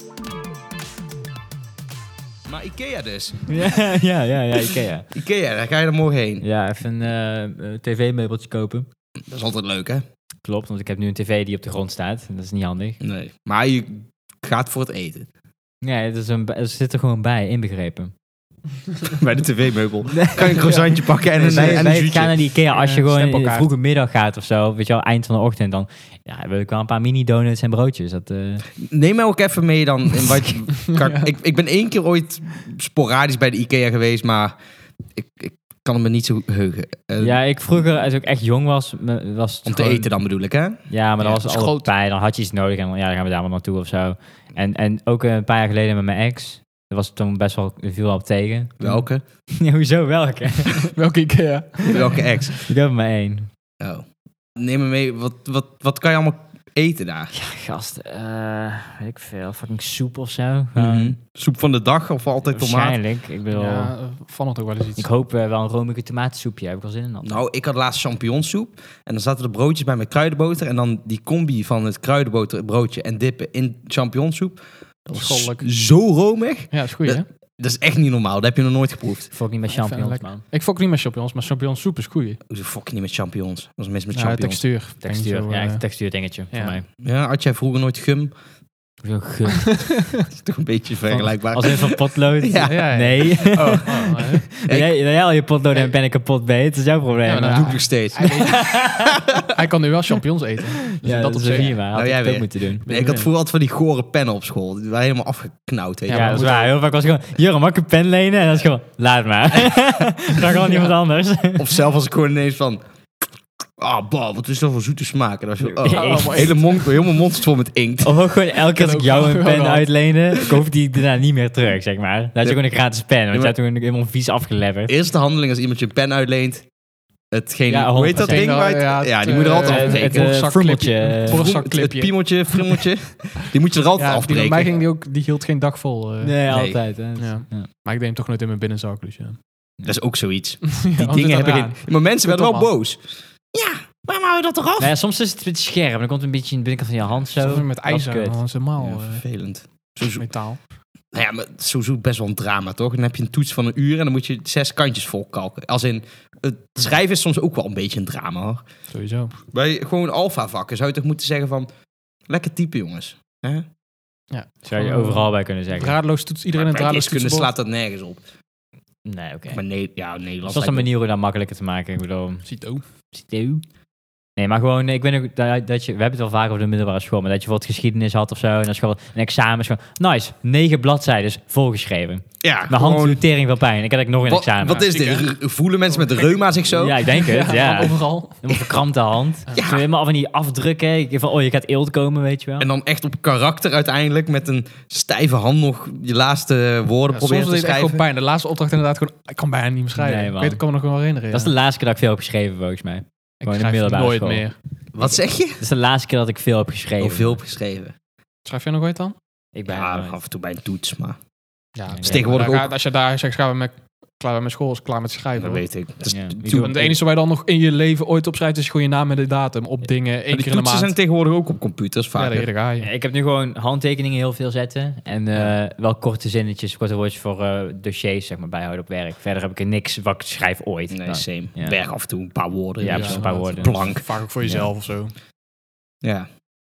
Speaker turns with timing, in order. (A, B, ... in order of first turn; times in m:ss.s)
0:02.5-0:03.5 A
0:03.5-0:05.1 B
0:05.1-0:06.4 A
0:06.4-0:08.9 B
0:09.3-0:10.0 A
0:10.4-0:13.0 B
0:13.0-0:15.3 A
0:15.8-0:18.1 B
0:19.0-0:22.3 A
0:20.1-0:20.7 B
0:21.4-0:21.9 C
0:21.4-0:28.6 B
0:22.7-0:23.7 C
0:28.8-0:34.6 A
0:30.9-0:31.3 C
0:35.2-0:37.9 A
0:37.2-0:40.1 B
0:39.6-0:41.7 A
0:40.9-0:50.9 B
0:41.2-0:41.9 C
0:48.8-0:49.2 A
0:50.9-0:52.3 C
0:51.8-0:52.6 A
0:52.6-0:53.5 B
0:53.8-0:57.3 A
0:57.3-1:01.2 B
1:00.7-1:03.0 A
1:02.5-1:03.9 B
1:03.5-1:05.1 C
1:05.0-1:07.4 B
1:07.2-1:19.3 A
1:15.1-1:15.7 C
1:16.7-1:17.3 C
1:19.3-1:20.4 B
1:19.7-1:22.4 C
1:22.5-1:24.6 A
1:24.1-1:25.8 C
1:25.0-1:26.8 B
1:26.5-1:26.8 C
1:27.0-1:28.3 A
1:29.0-1:30.1 B
1:29.8-1:30.2 C
1:30.3-1:32.9 A
1:31.1-1:39.2 B
1:32.6-1:34.5 C
1:33.4-1:33.8 A
1:34.6-1:34.9 A
1:37.2-1:41.7 C
1:37.4-1:38.4 A
1:39.0-1:39.4 A
1:40.9-1:42.8 B
1:41.9-1:46.5 A
1:42.8-1:43.3 C
1:46.1-1:46.7 C
1:46.1-1:51.7 B
1:51.6-1:52.8 A
1:53.8-1:58.2 A
1:55.8-1:56.6 B
1:55.8-1:56.9 C
1:58.0-2:04.9 B
1:58.7-1:59.9 C
2:04.9-2:06.7 A
2:07.3-2:10.4 A
2:07.7-2:08.8 B
2:08.2-2:12.8 C
2:09.5-2:11.5 B
2:11.3-2:14.8 A
2:14.0-2:16.3 C
2:16.2-2:17.7 B
2:16.5-2:16.8 A
2:17.2-2:19.4 C
2:19.8-2:24.9 A
2:20.6-2:22.7 C
2:24.8-2:28.4 B
2:27.4-2:29.2 C
2:28.8-2:30.2 A
2:30.0-2:30.6 C
2:31.1-2:38.6 A
2:38.9-2:39.3 C
2:39.5-2:41.7 A
2:42.3-2:43.6 A
2:44.3-2:47.5 C
2:44.6-2:46.0 B
2:46.5-2:48.2 A
2:49.0-2:49.6 B
2:49.5-2:50.9 A
2:50.4-2:52.4 B
2:52.4-2:52.8 C
2:53.1-2:53.6 B
2:54.4-3:04.8 B
3:02.4-3:03.2 A
3:04.3-3:07.0 A
3:04.7-3:05.3 C
3:05.9-3:06.3 C
3:06.7-3:12.7 B
3:07.0-3:08.7 C
3:09.5-3:09.8 A
3:12.6-3:18.0 A
3:17.1-3:21.5 C
3:20.0-3:20.6 B
3:21.3-3:24.5 B
3:23.4-3:24.6 C
3:24.9-3:25.6 A
3:25.6-3:27.4 B
3:27.0-3:27.9 A
3:28.4-3:29.1 C
3:29.5-3:30.2 B
3:29.7-3:31.2 A
3:31.7-3:35.6 C
3:31.9-3:32.5 B
3:32.0-3:32.7 A
3:35.4-3:36.8 A
3:36.1-3:36.9 B
3:36.5-3:40.9 C
3:40.3-3:42.5 A
3:42.1-3:42.9 C
3:42.8-3:51.9 B
3:50.9-3:54.0 A
3:52.8-3:54.7 B
3:52.9-3:55.1 C